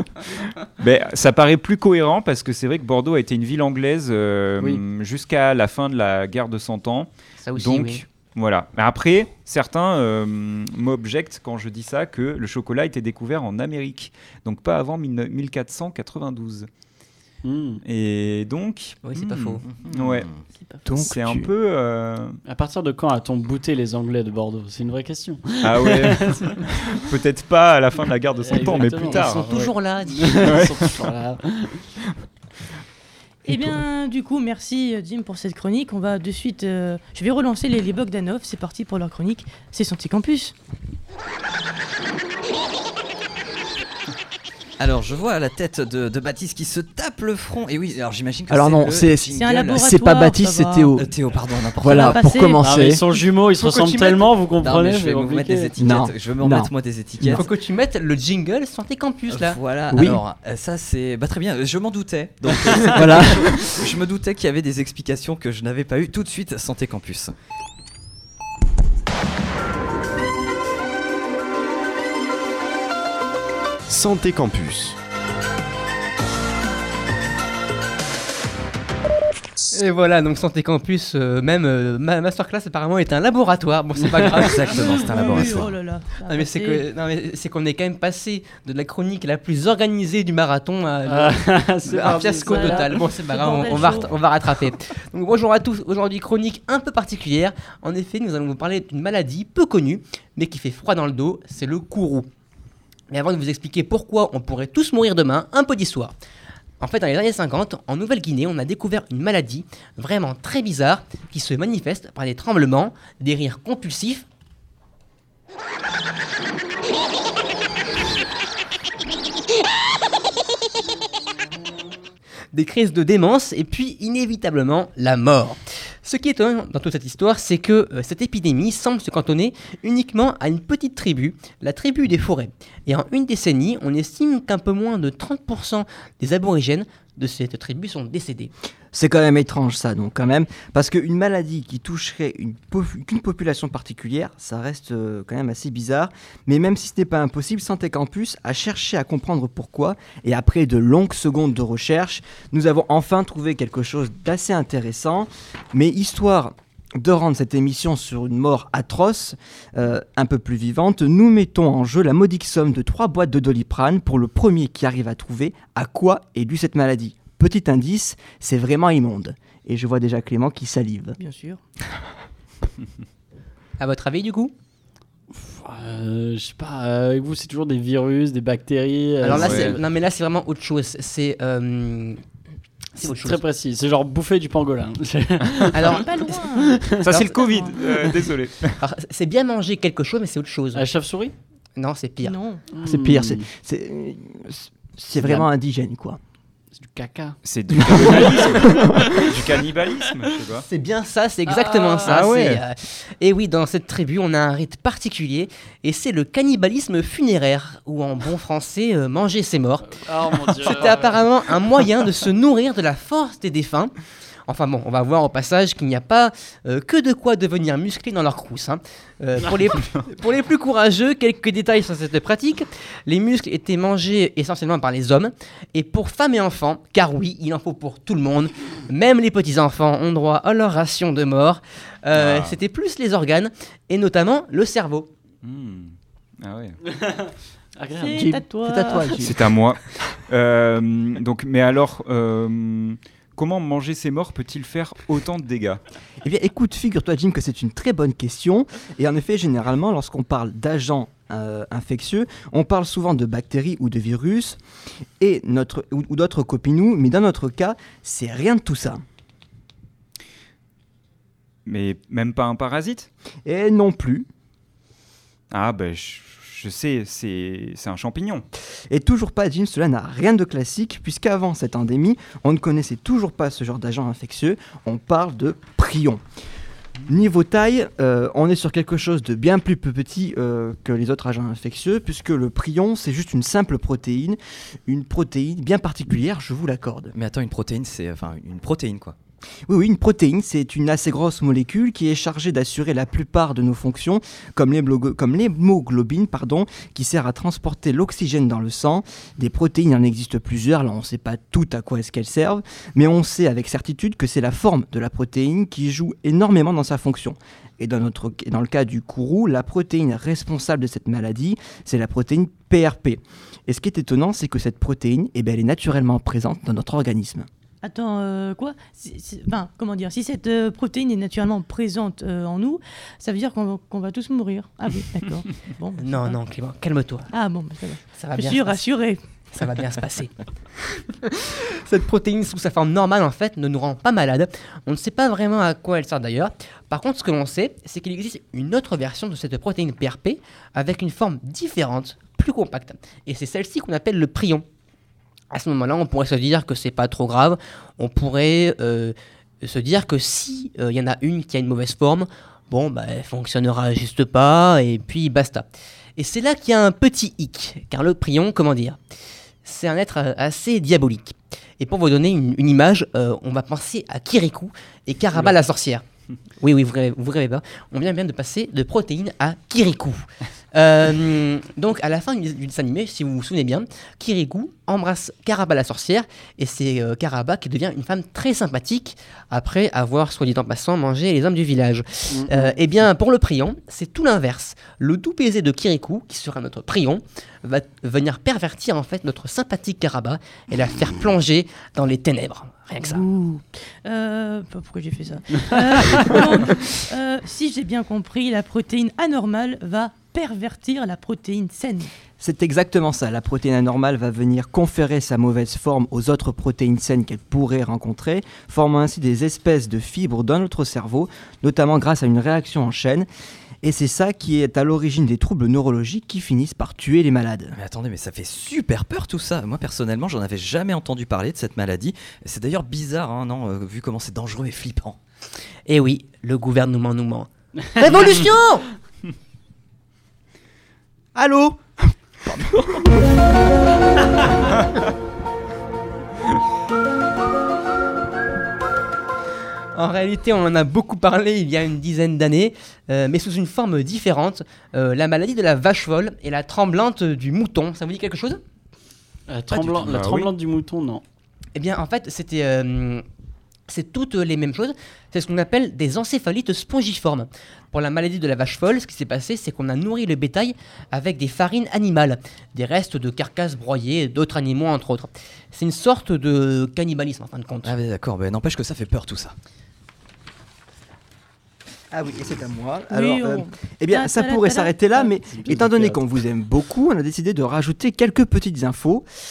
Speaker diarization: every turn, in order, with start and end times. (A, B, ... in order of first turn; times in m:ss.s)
0:00.8-0:16.7 A
0:07.4-0:08.0 B
0:17.4-0:17.8 C
0:17.8-0:20.3 A
0:19.0-0:19.6 B
0:19.7-0:20.4 D
0:20.8-0:21.5 E
0:20.9-0:22.4 A
0:22.5-0:26.6 C
0:25.6-0:29.5 A
0:28.4-0:31.9 C
0:28.7-0:30.5 B
0:30.4-0:30.9 A
0:33.4-0:40.5 F
0:44.8-0:49.9 D
0:48.5-0:51.0 E
0:49.3-0:50.9 F
0:51.0-0:52.3 D
0:51.8-0:53.0 E
0:51.8-0:52.6 F
0:52.6-0:55.7 C
0:53.6-0:57.4 D
0:55.8-0:57.4 E
0:57.3-0:59.6 B
0:59.3-1:07.3 D
0:59.9-1:00.2 E
1:02.9-1:03.5 E
1:19.7-1:25.5 B
1:24.3-1:25.8 D
1:24.7-1:26.8 F
1:26.3-1:42.3 B
1:31.0-1:33.1 C
1:32.5-1:34.1 F
1:43.1-1:46.1 B
1:46.8-1:54.2 B
2:02.5-2:18.5 B
2:18.9-2:51.2 E
2:51.2-2:51.6 F
2:53.8-2:54.5 B
2:55.3-2:59.8 C
2:59.2-3:02.2 B
2:59.3-2:59.8 A
3:03.0-3:03.4 B
3:03.0-3:06.0 C
3:05.7-3:06.4 B
3:05.8-3:07.8 F
3:06.6-3:07.1 C
3:07.0-3:08.8 A
3:08.8-3:10.8 B
3:10.7-3:11.3 C
3:11.8-3:12.3 B
3:12.2-3:12.6 F
3:12.7-3:13.4 C
3:12.8-3:16.2 E
3:15.2-3:15.4 B
3:16.8-3:19.3 C
3:17.4-3:20.6 A
3:18.6-3:19.0 E
3:20.6-3:30.0 B
3:21.5-3:22.1 C
3:22.0-3:22.6 A
3:29.8-3:31.5 C
3:30.6-3:33.9 B
3:34.5-3:55.1 B
3:52.1-3:52.6 A
3:55.4-3:56.8 A
3:56.9-3:58.4 C
3:57.9-3:59.2 F
3:58.1-3:59.4 E
3:59.2-4:05.8 A
4:06.2-4:14.6 E
4:15.2-4:19.0 E
4:21.6-4:23.1 A
4:23.4-4:24.3 E
4:25.5-4:28.4 A
4:28.9-4:36.2 E
4:37.1-4:47.1 E
4:47.1-4:49.1 D
4:49.7-5:17.5 E
5:17.8-5:26.4 F
5:26.0-5:27.3 B
5:27.3-5:29.2 F
5:28.2-5:28.8 B
5:29.5-5:30.3 B
5:31.2-5:44.6 B
5:45.5-5:55.6 B
5:56.2-5:59.0 B
5:59.6-6:06.0 B
6:06.6-6:33.2 B
6:22.3-6:22.7 C
6:33.0-6:42.1 F
6:42.4-6:53.3 E
6:53.8-6:57.7 E
6:57.7-7:05.2 D
7:05.9-7:08.8 B
7:08.1-7:08.4 C
7:11.3-7:11.8 E
7:12.4-7:13.0 E
7:19.9-7:28.6 B
7:29.5-7:31.2 C
7:29.7-7:30.5 A
7:31.7-7:33.2 B
7:33.9-7:48.0 B
7:47.8-7:49.5 D
7:52.1-7:59.2 E
7:53.1-7:55.3 F
7:55.5-7:56.2 C